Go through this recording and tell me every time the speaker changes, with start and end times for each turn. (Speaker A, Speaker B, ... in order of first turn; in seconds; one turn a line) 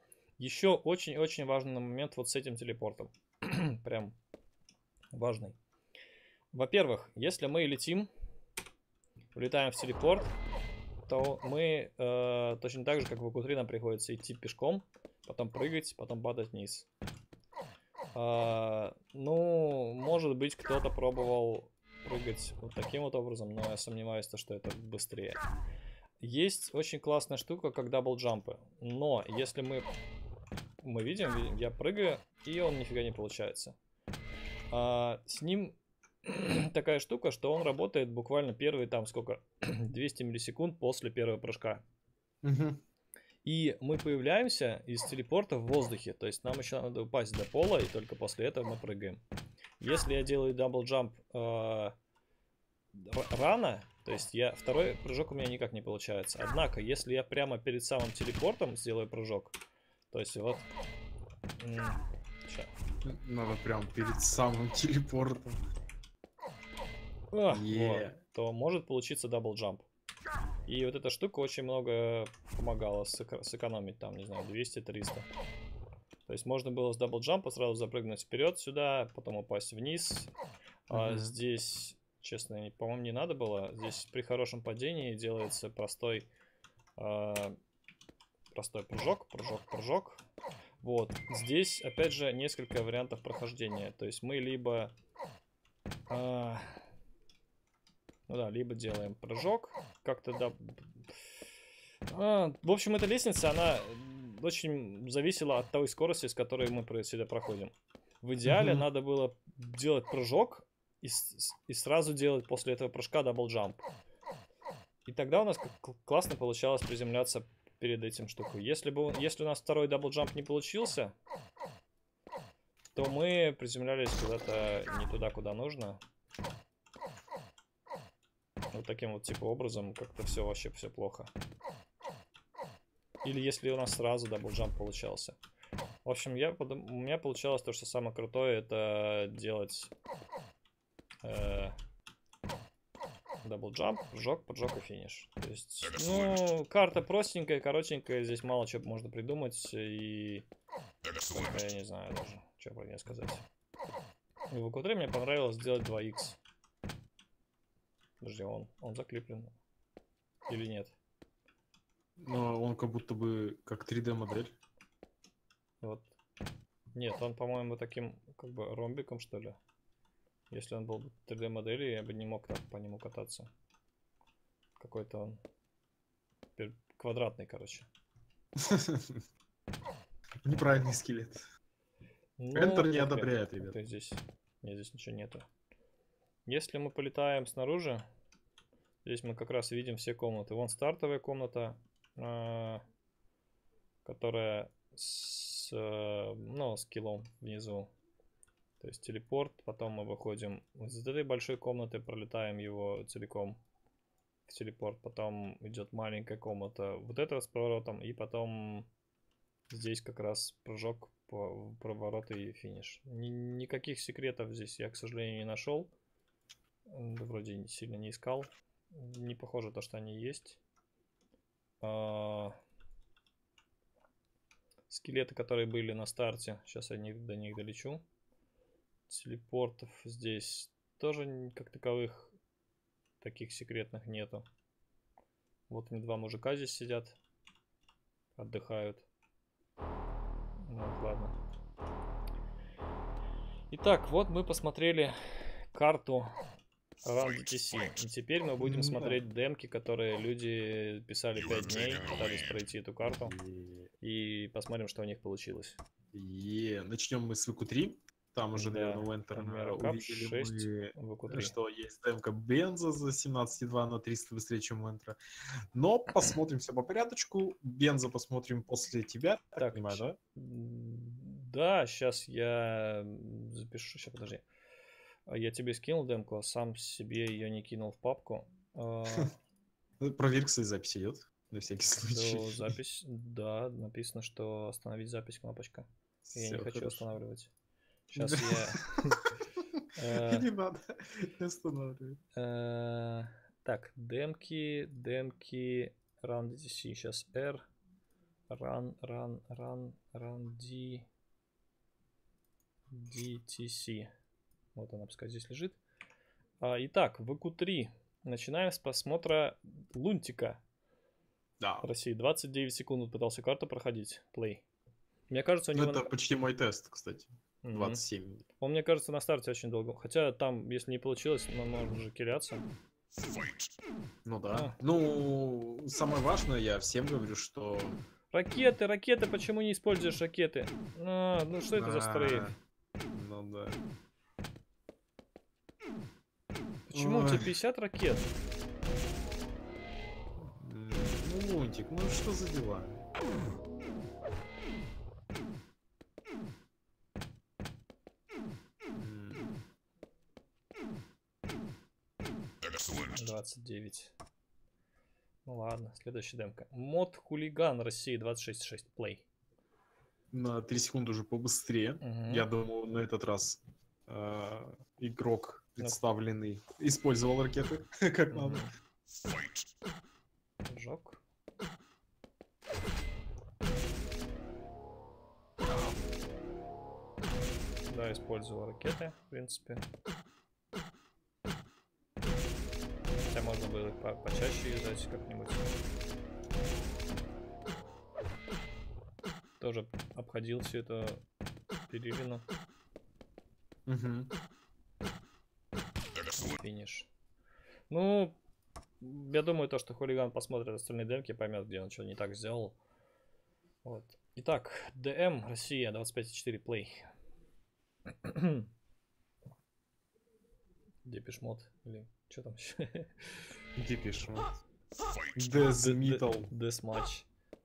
Speaker A: 0.4-4.2
Speaker A: 5.1-5.6
Speaker A: 6.5-8.1
Speaker A: 9.3-10.3
Speaker A: 11.1-16.9
Speaker A: 18.1-25.4
Speaker A: 26.2-29.9
Speaker A: 30.8-33.8
Speaker A: 34.7-41.8
Speaker B: 42.4-42.8
Speaker A: 43.5-49.2
Speaker A: 49.8-52.0
Speaker A: 52.9-59.6
Speaker A: 60.1-60.7
Speaker A: 61.6-62.7
Speaker B: 63.0-65.6
Speaker A: 67.3-69.8
Speaker B: 67.5-68.2
Speaker A: 70.7-75.3
Speaker A: 76.3-80.3
Speaker A: 80.9-86.3
Speaker B: 80.9-81.3
Speaker A: 87.0-87.6
Speaker A: 88.5-90.2
Speaker A: 90.8-94.9
Speaker A: 96.1-96.8
Speaker A: 98.3-101.1
Speaker A: 102.1-113.8
Speaker B: 108.5-108.8
Speaker A: 115.1-121.1
Speaker A: 123.0-126.0
Speaker A: 128.7-131.3
Speaker A: 133.2-135.4
Speaker A: 136.1-139.9
Speaker A: 141.2-141.8
Speaker A: 143.4-150.5
Speaker A: 151.3-153.4
Speaker A: 154.5-156.4
Speaker A: 158.2-159.6
Speaker A: 160.5-161.0
Speaker B: 162.2-164.6
Speaker A: 165.8-166.2
Speaker A: 166.9-169.6
Speaker A: 170.5-173.5
Speaker A: 174.8-175.4
Speaker A: 176.6-177.9
Speaker B: 178.6-179.2
Speaker B: 180.4-181.4
Speaker A: 182.4-185.4
Speaker B: 182.6-183.8
Speaker A: 186.5-188.1
Speaker A: 189.1-192.8
Speaker A: 194.1-197.9
Speaker A: 198.8-203.6
Speaker A: 204.5-208.9
Speaker A: 209.7-215.9
Speaker A: 216.9-220.6
Speaker A: 221.8-222.6
Speaker A: 224.9-228.0
Speaker A: 229.1-232.3
Speaker A: 233.2-234.4
Speaker A: 235.7-237.2
Speaker A: 238.4-239.1
Speaker A: 240.6-241.3
Speaker A: 243.7-246.3
Speaker A: 247.0-253.3
Speaker B: 248.6-249.2
Speaker B: 253.2-253.9
Speaker A: 254.0-255.8
Speaker B: 256.1-265.2
Speaker A: 258.6-261.6
Speaker B: 265.7-270.2
Speaker A: 269.6-274.4
Speaker A: 275.3-279.4
Speaker B: 280.0-282.7
Speaker A: 282.1-287.5
Speaker B: 286.2-287.1
Speaker A: 288.1-289.2
Speaker B: 288.2-292.2
Speaker A: 289.9-290.5
Speaker A: 292.4-297.6
Speaker A: 298.5-301.1
Speaker A: 302.9-304.1
Speaker A: 304.8-305.8
Speaker A: 306.6-310.6
Speaker B: 311.6-311.9
Speaker A: 311.8-314.6
Speaker A: 315.3-316.1
Speaker B: 315.7-318.4
Speaker A: 317.6-318.0
Speaker A: 318.6-322.7
Speaker B: 324.2-328.0
Speaker A: 324.5-324.8
Speaker A: 328.3-332.6
Speaker B: 331.7-332.6
Speaker B: 333.1-333.8
Speaker A: 336.9-338.3
Speaker B: 336.9-337.5
Speaker B: 340.4-343.1
Speaker B: 348.9-349.6
Speaker A: 353.1-354.1
Speaker A: 355.5-359.3
Speaker B: 360.3-368.6
Speaker A: 362.0-362.5
Speaker A: 368.3-368.7
Speaker A: 370.7-371.2
Speaker A: 377.9-379.9
Speaker A: 383.3-385.7
Speaker A: 389.6-391.2
Speaker A: 391.9-392.4
Speaker B: 393.9-394.3
Speaker A: 396.4-397.1
Speaker A: 397.9-398.4
Speaker A: 399.0-402.8
Speaker A: 403.8-407.1
Speaker A: 408.2-408.7
Speaker A: 411.1-413.4
Speaker B: 413.8-414.6
Speaker B: 415.4-416.5
Speaker A: 415.6-417.3